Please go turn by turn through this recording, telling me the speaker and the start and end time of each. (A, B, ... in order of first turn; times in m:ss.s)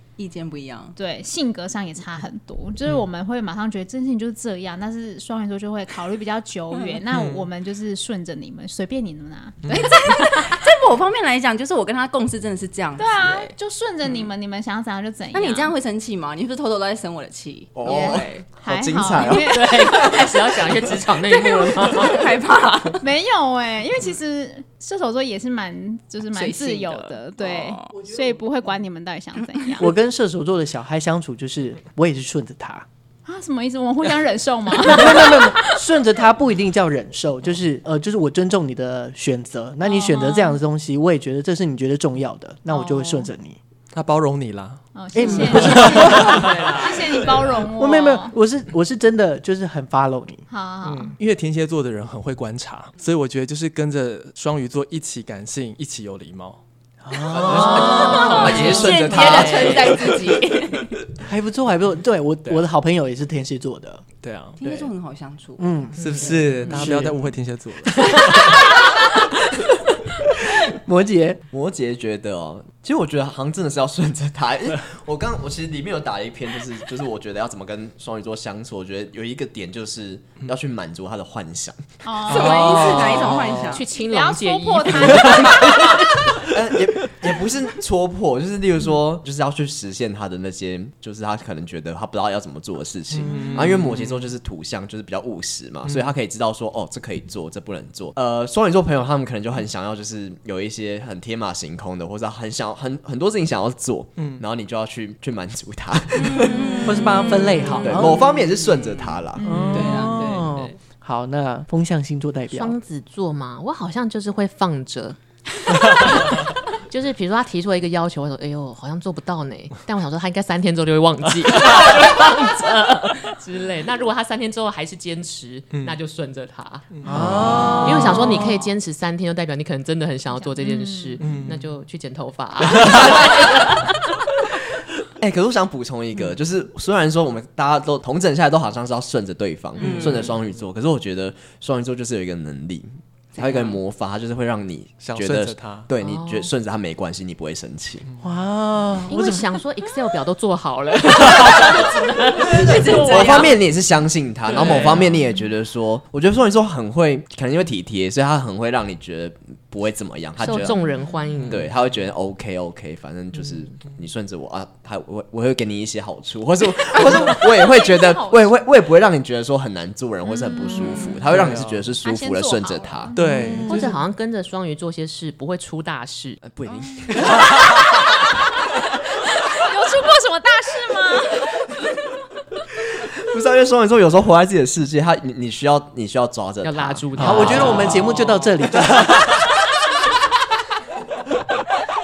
0:00.2-0:01.0 A
0:01.0-0:10.5 B
0:07.1-0:07.5 C
0:09.7-0:13.5 A
0:13.0-0:15.7 B
0:15.3-0:18.4 A
0:17.8-0:20.2 D
0:17.8-0:20.3 B
0:19.4-0:22.2 E
0:21.3-0:23.0 A
0:23.0-0:29.9 B
0:26.3-0:28.0 A
0:29.4-0:29.8 A
0:29.8-0:32.8 F
0:33.2-0:35.7 B
0:34.8-0:43.6 F
0:39.8-0:40.6 B
0:42.7-0:43.3 B
0:43.9-0:47.4 C
0:44.9-0:48.3 B
0:45.1-0:46.7 F
0:45.2-0:45.5 A
0:47.7-0:50.4 F
0:50.5-0:51.2 B
0:50.8-0:56.6 C
0:57.0-0:59.3 F
0:57.3-1:00.4 C
0:57.5-1:00.9 A
0:57.7-0:59.8 D
0:57.8-0:58.7 B
0:58.2-0:59.7 E
1:01.2-1:04.0 F
1:04.2-1:04.9 C
1:04.6-1:05.8 A
1:05.6-1:07.3 F
1:06.0-1:08.6 C
1:06.0-1:06.4 E
1:10.6-1:11.4 F
1:11.5-1:22.0 D
1:22.0-1:23.2 B
1:22.3-1:23.8 A
1:22.5-1:23.1 F
1:22.8-1:23.5 C
1:23.6-1:26.0 E
1:23.8-1:26.0 B
1:26.4-1:47.1 D
1:33.1-1:34.3 C
1:33.3-1:33.7 B
1:35.8-1:36.1 C
1:44.2-1:44.4 C
1:46.2-1:49.2 A
1:46.8-1:48.3 F
1:47.8-1:49.6 D
1:49.4-1:49.8 B
1:49.4-1:52.8 F
1:49.6-1:50.1 C
1:49.7-1:50.7 A
1:52.5-1:55.2 E
1:55.7-2:14.1 E
2:05.7-2:06.0 C
2:06.9-2:08.4 C
2:07.0-2:08.5 F
2:10.3-2:11.4 B
2:11.2-2:11.6 C
2:12.7-2:13.0 C
2:15.2-2:28.1 D
2:19.8-2:20.3 A
2:19.8-2:20.3 B
2:23.4-2:23.8 A
2:25.0-2:25.9 C
2:26.0-2:26.5 E
2:28.2-2:29.6 F
2:29.1-2:33.3 E
2:32.4-2:33.6 A
2:32.6-2:33.5 B
2:32.9-2:40.8 D
2:34.5-2:35.2 C
2:40.4-2:41.7 E
2:41.4-2:41.7 C
2:41.5-2:53.1 D
2:46.9-2:48.6 B
2:50.2-2:51.3 B
2:51.3-2:51.9 C
2:51.9-2:53.8 B
2:53.1-2:53.9 C
2:53.4-2:53.9 F
2:53.6-2:56.4 E
2:56.4-2:57.6 D
2:56.6-2:57.2 A
2:59.4-3:01.6 B
3:03.2-3:07.7 D
3:06.6-3:08.0 E
3:07.2-3:09.3 F